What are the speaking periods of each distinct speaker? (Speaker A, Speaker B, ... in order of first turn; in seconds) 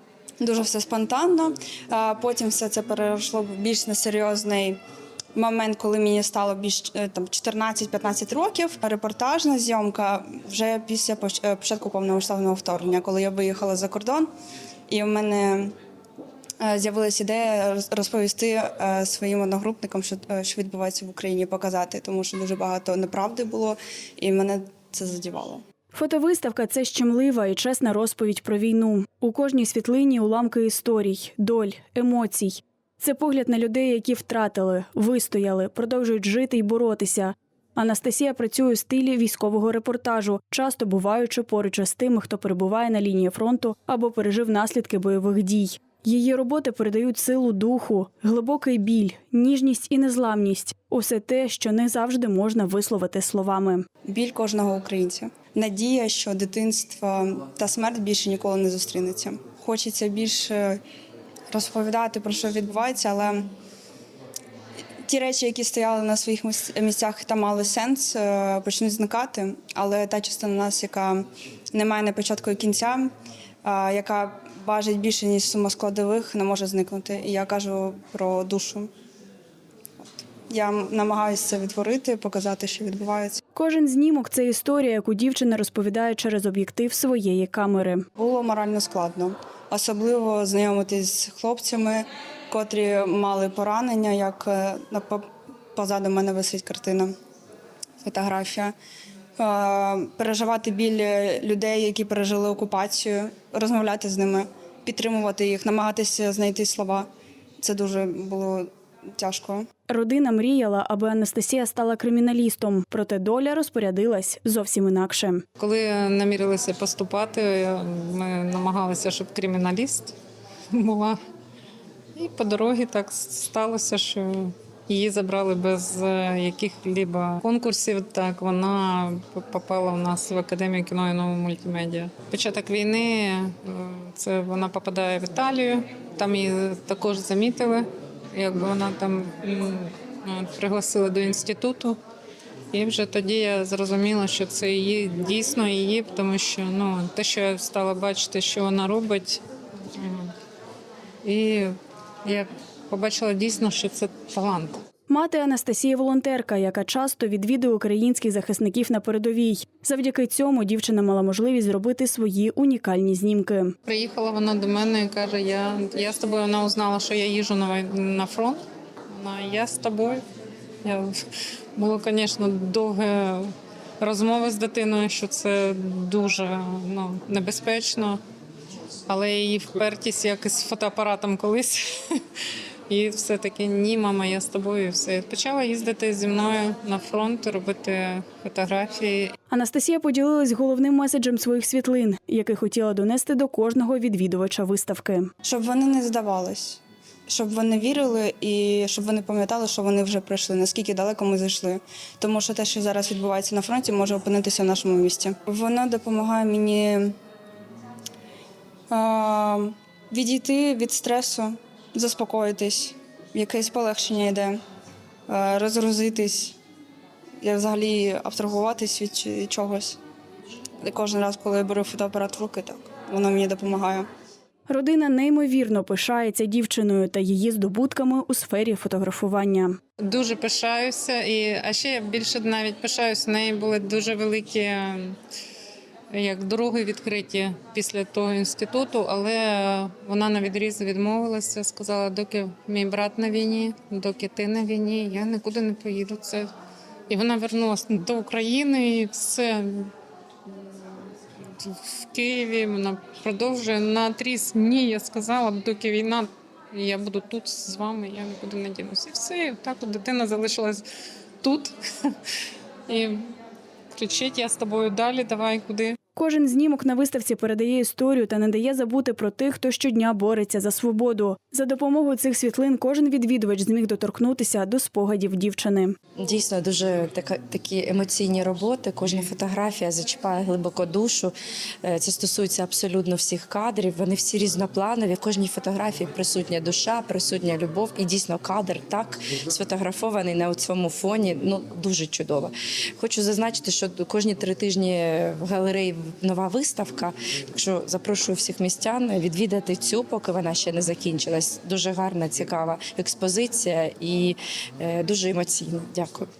Speaker A: 0.4-4.8, 5.3-14.3, 14.9-15.7, 16.6-25.6, 54.0-60.8, 61.5-63.5, 65.0-73.1, 73.6-78.9, 80.5-83.4, 88.2-95.2, 95.8-97.1, 98.0-98.7, 99.4-107.1, 107.6-109.7, 195.4-207.1, 208.9-214.6, 215.3-216.6, 217.4-220.0, 220.8-224.1
Speaker B: 25.9-53.9, 83.5-88.0, 109.9-115.4, 155.1-163.7, 189.5-195.3, 224.7-229.8, 266.1-276.0
Speaker C: 115.6-120.1, 120.7-121.2, 122.2-142.0, 142.7-150.3, 151.2-154.8, 163.8-170.2, 170.8-171.1, 171.8-178.2, 179.1-182.2, 182.9-189.3, 230.0-235.2, 236.1-246.5, 247.1-249.9, 250.4-260.8, 261.4-262.1, 262.9-263.3, 263.9-266.0
Speaker D: 276.2-281.3, 281.8-306.3